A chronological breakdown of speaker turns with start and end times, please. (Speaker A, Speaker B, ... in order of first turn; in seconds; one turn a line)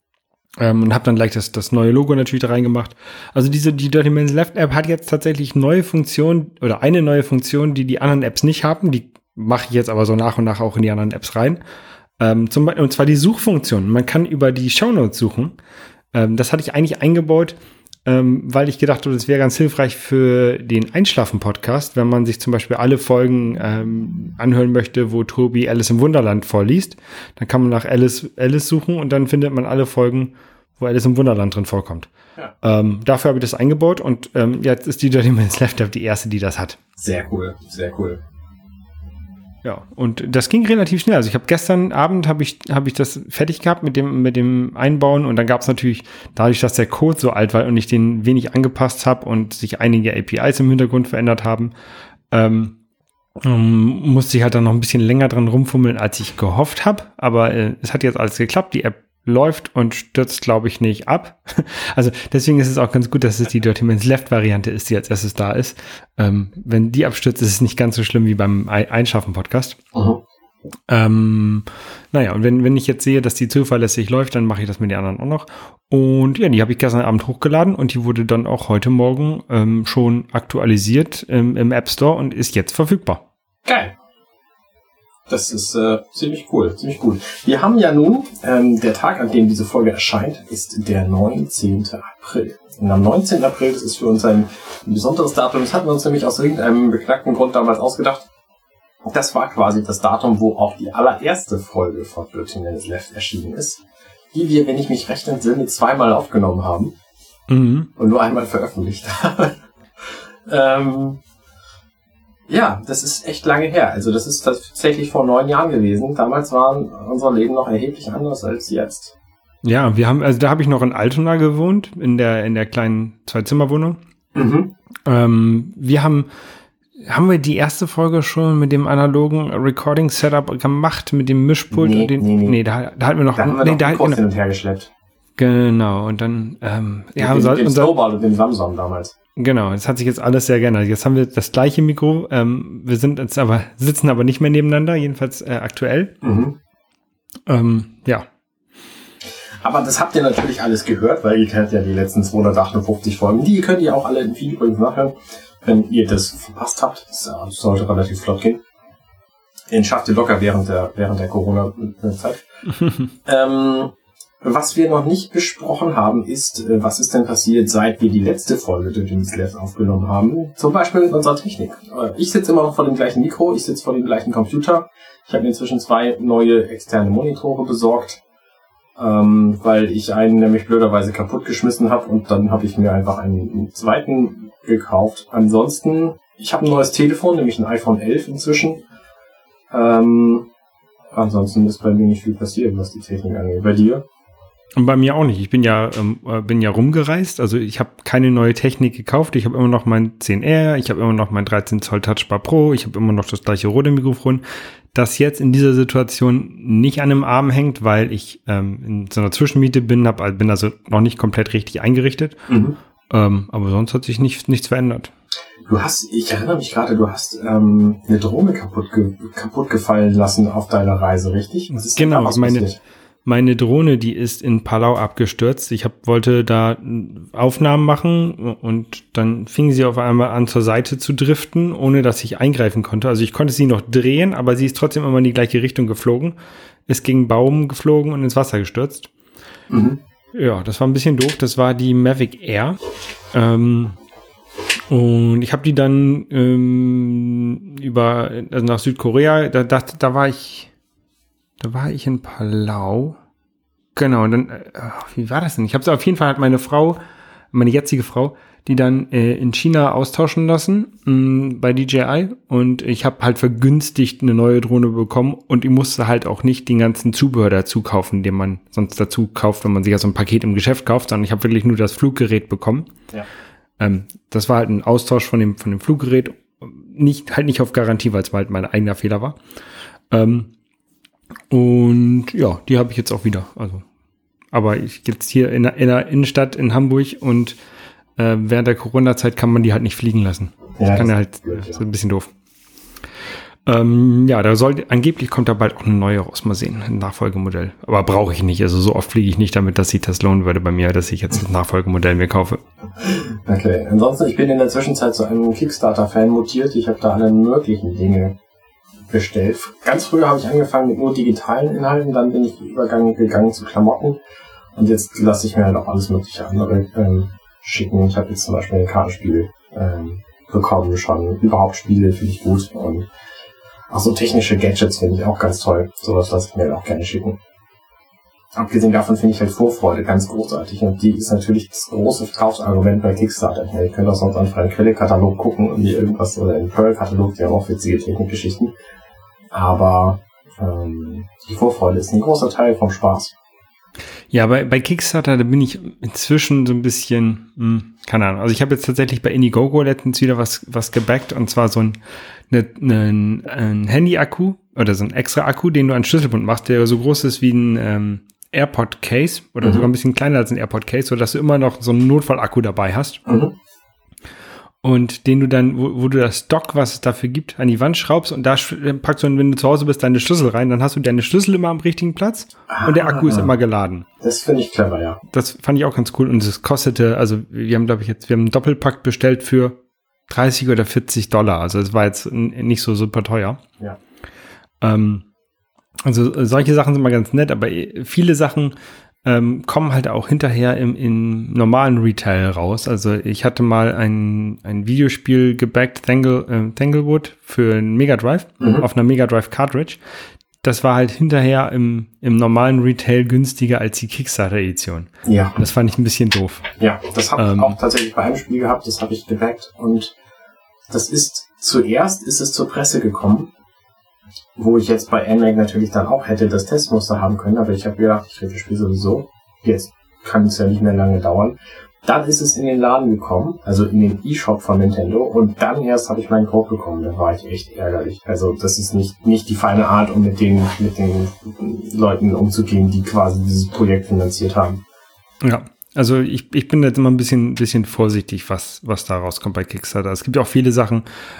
Speaker A: 0.6-11.6
Speaker A: 12.2-15.5
Speaker A: 16.1-32.1
Speaker A: 32.6-36.8
Speaker B: 37.0-38.2
Speaker A: 39.6-51.7
Speaker A: 52.3-52.8
Speaker A: 53.4-69.8
Speaker B: 69.9-70.2
Speaker A: 70.9-83.2
Speaker B: 83.7-83.9
Speaker B: 85.3-98.3
Speaker B: 99.1-103.8
Speaker B: 104.3-106.9
Speaker A: 107.5-107.9
Speaker B: 108.0-109.5
Speaker B: 110.5-111.2
Speaker B: 112.5-119.1
Speaker A: 119.6-124.0
Speaker B: 124.3-124.7
Speaker A: 125.0-126.3
Speaker A: 127.0-134.2
Speaker B: 131.7-132.6
Speaker B: 133.3-134.9
Speaker A: 135.4-137.9
Speaker B: 137.2-139.1
Speaker A: 139.3-146.1
Speaker B: 146.2-146.6
Speaker A: 147.5-148.3
Speaker B: 149.6-158.6
Speaker B: 159.7-162.4
Speaker B: 163.2-178.2
Speaker B: 179.0-188.8
Speaker B: 189.7-190.5
Speaker B: 191.1-194.0
Speaker A: 194.8-212.4
Speaker B: 212.5-212.8
Speaker A: 213.1-215.1
Speaker B: 215.7-222.8
Speaker A: 221.9-222.7
Speaker A: 223.2-236.3
Speaker A: 236.9-239.1
Speaker B: 239.7-240.0
Speaker A: 240.3-242.8
Speaker A: 243.3-244.0
Speaker A: 244.9-250.7
Speaker A: 251.6-253.2
Speaker A: 253.9-257.0
Speaker A: 257.5-272.9
Speaker A: 273.8-279.4
Speaker A: 280.1-280.5
Speaker A: 281.5-283.8
Speaker A: 284.5-287.6
Speaker A: 288.2-292.3
Speaker B: 290.8-291.8
Speaker A: 293.6-302.6
Speaker B: 303.0-308.4
Speaker B: 309.1-314.2
Speaker B: 314.7-323.1
Speaker B: 323.9-327.4
Speaker B: 328.6-338.7
Speaker B: 339.5-343.3
Speaker A: 344.3-352.0
Speaker A: 352.5-363.2
Speaker B: 359.6-359.9
Speaker B: 363.2-363.5
Speaker A: 364.8-374.1
Speaker B: 372.7-373.5
Speaker B: 374.2-375.2
Speaker A: 375.3-383.6
Speaker A: 384.8-385.2
Speaker A: 386.0-400.0
Speaker B: 398.6-398.9
Speaker A: 400.6-406.7
Speaker B: 405.2-405.5
Speaker B: 406.8-410.1
Speaker A: 407.4-407.8
Speaker B: 410.9-413.5
Speaker B: 414.6-434.8
Speaker A: 435.4-441.0